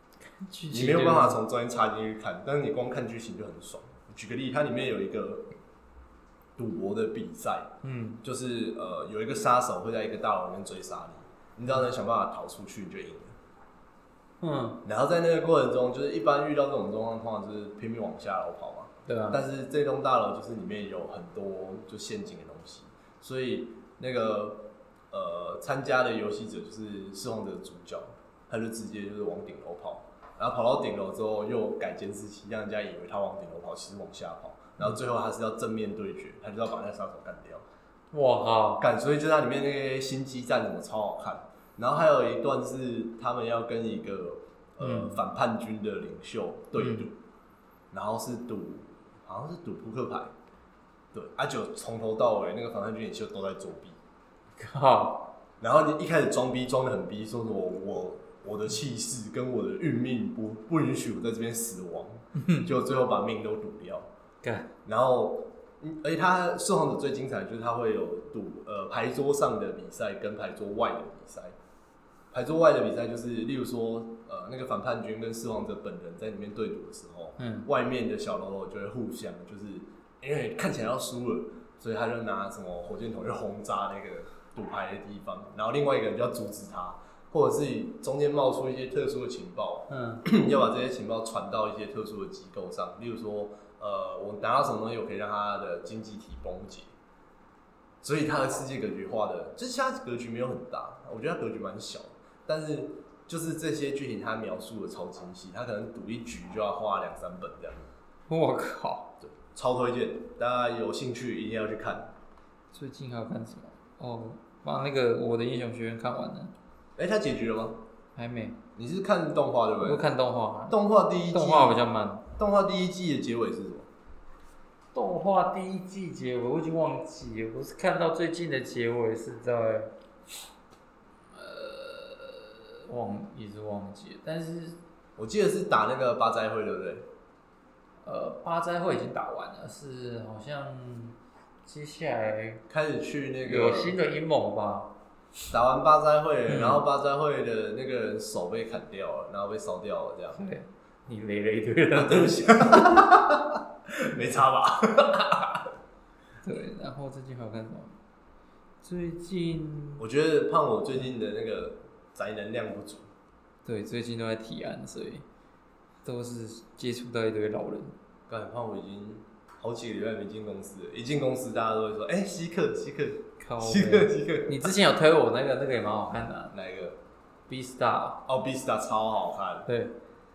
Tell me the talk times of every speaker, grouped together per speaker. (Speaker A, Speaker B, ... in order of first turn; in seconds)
Speaker A: 0.3-1.4, 7.8-8.2, 14.4-14.8, 19.1-19.4, 38.1-38.8, 44.8-45.2, 46.8-47.1, 54.6-55.3, 62.4-62.7, 64.4-64.7, 77.4-77.7, 89.9-90.2, 108.3-109.1, 112.7-116.5, 118.2-118.6, 119.8-122.3, 124.9-129.9, 131.3-134.8, 138.0-142.6, 143.4-144.9, 146.5-146.8, 150.4-153.1, 156.4-158.0, 158.8-160.1, 163.7-165.2, 166.0-167.9, 173.4-176.5, 177.5-178.2, 179.7-180.0
Speaker B: 0.7-5.5, 6.6-7.7, 8.2-13.3, 14.8-37.6, 38.8-47.1, 47.9-50.3, 51.1-54.0, 55.6-64.1, 64.8-71.5, 72.3-96.9, 98.0-107.9, 109.2-112.1, 117.0-117.8, 118.8-120.0, 120.7-121.8, 122.4-123.9, 135.2-137.1, 142.7-144.0, 145.5-150.4, 151.9-155.7, 160.0-163.1, 168.3-174.7, 176.5-177.0, 178.3-179.7